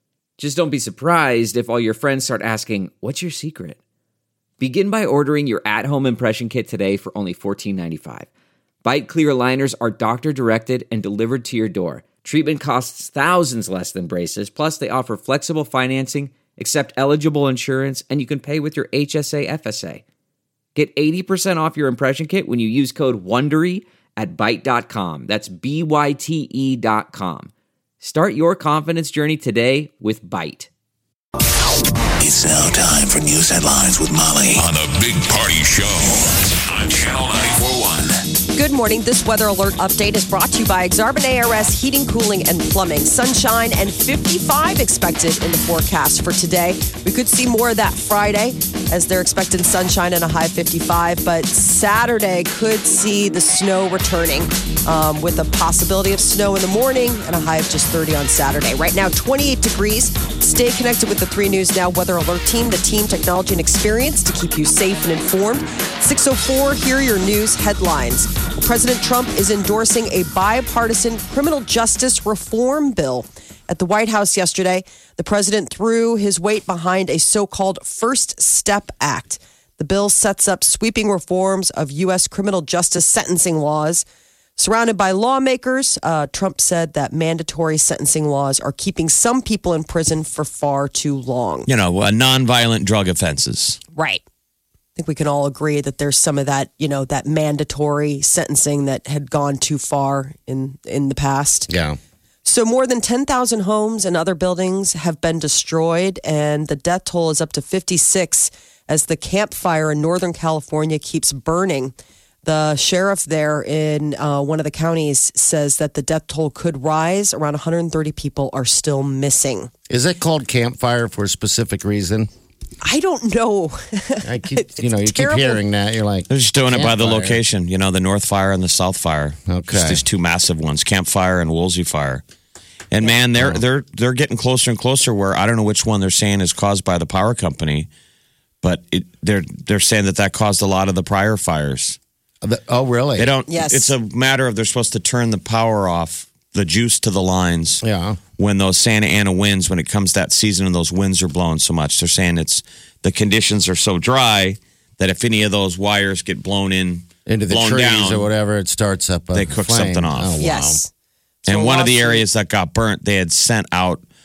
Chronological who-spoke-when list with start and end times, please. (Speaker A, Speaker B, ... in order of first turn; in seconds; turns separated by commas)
Speaker A: 0.4-3.8, Speaker A: 4.6-8.3, Speaker A: 8.8-20.0, Speaker A: 20.7-27.5, Speaker A: 28.0-30.7, Speaker B: 32.2-38.2, Speaker C: 38.5-84.0, Speaker C: 84.6-91.7, Speaker D: 91.7-93.8, Speaker C: 93.9-94.2, Speaker C: 95.0-101.7, Speaker E: 101.7-102.0, Speaker C: 102.4-111.9, Speaker C: 112.4-119.7, Speaker E: 119.9-122.3, Speaker C: 122.8-125.6, Speaker E: 124.2-127.4, Speaker D: 126.3-132.2, Speaker E: 129.5-130.0, Speaker D: 132.9-137.9, Speaker E: 133.3-133.6, Speaker D: 138.6-142.0, Speaker E: 142.4-143.3, Speaker D: 143.2-147.8, Speaker C: 143.5-143.9, Speaker E: 147.8-148.2, Speaker D: 148.4-158.3, Speaker E: 157.2-160.8, Speaker D: 159.3-160.4, Speaker C: 160.4-160.9, Speaker C: 161.4-162.2, Speaker D: 161.5-164.0